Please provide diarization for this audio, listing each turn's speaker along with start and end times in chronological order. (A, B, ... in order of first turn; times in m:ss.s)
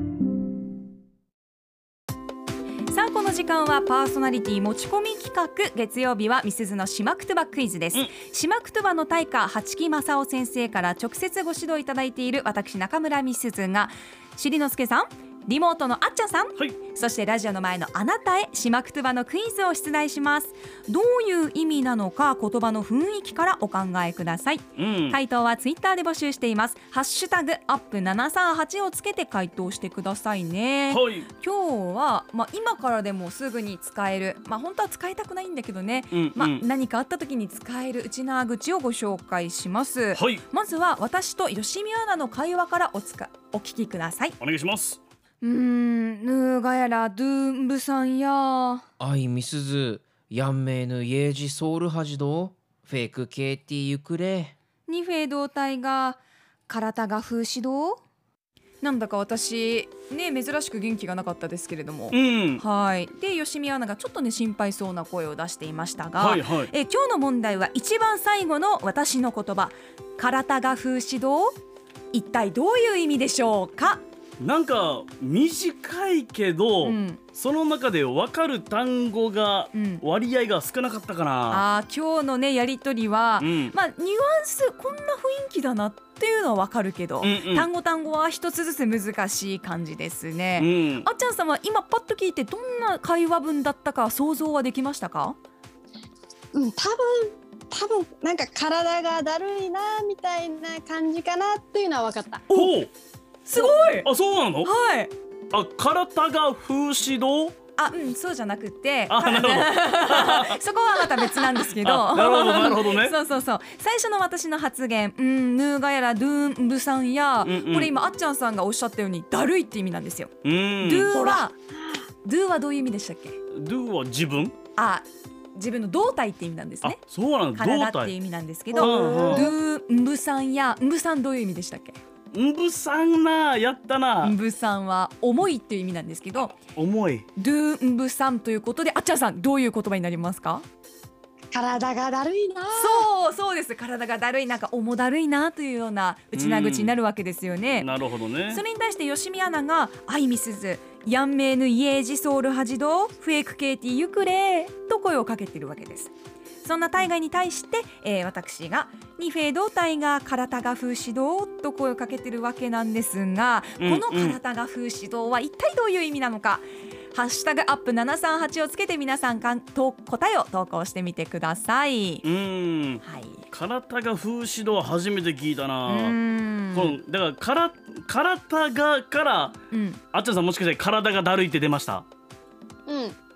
0:02.9-0:44.3 A
0:24.8-0:25.2 B
0:30.9-0:31.3 B
0:36.1-0:36.6 B
0:40.1-0:40.4 B
0:44.4-0:45.0 B
0:45.4-0:48.8 A
0:49.0-0:54.5 C
0:54.9-0:58.0 A
0:58.8-1:11.6 A
1:02.1-1:02.6 B
1:06.2-1:06.7 B
1:12.1-1:14.0 A
1:14.4-1:21.6 B
1:16.8-1:17.2 A
1:19.7-1:20.0 A
1:21.5-1:35.4 A
1:23.4-1:23.7 B
1:27.2-1:27.7 B
1:30.6-1:31.1 B
1:36.5-1:42.4 D
1:42.5-1:42.9 B
1:43.5-1:44.1 A
1:43.6-1:44.7 B
1:44.6-1:45.1 A
1:45.5-1:47.6 B
1:47.8-2:01.5 A
1:49.1-1:50.6 B
1:51.2-1:53.2 B
1:57.4-1:57.9 B
2:00.4-2:01.2 B
2:01.1-2:02.0 D
2:02.2-2:03.4 A
2:03.5-2:04.5 B
2:04.8-2:07.0 A
2:06.8-2:08.1 B
2:07.5-2:12.0 A
2:08.7-2:09.5 D
2:08.8-2:09.5 B
2:12.3-2:14.4 B
2:14.2-2:16.6 A
2:16.8-2:17.3 B
2:17.4-2:20.6 A
2:21.5-2:23.1 D
2:22.8-2:27.9 A
2:26.3-2:27.0 B
2:27.7-2:28.6 B
2:28.5-2:36.1 A
2:36.6-2:52.2 A
2:43.8-2:44.4 B
2:52.2-2:56.2 B
2:53.0-2:53.4 A
2:55.8-2:57.0 A
2:56.7-2:59.6 B
2:59.7-3:00.0 A
3:00.1-3:02.0 B
3:02.9-3:03.2 D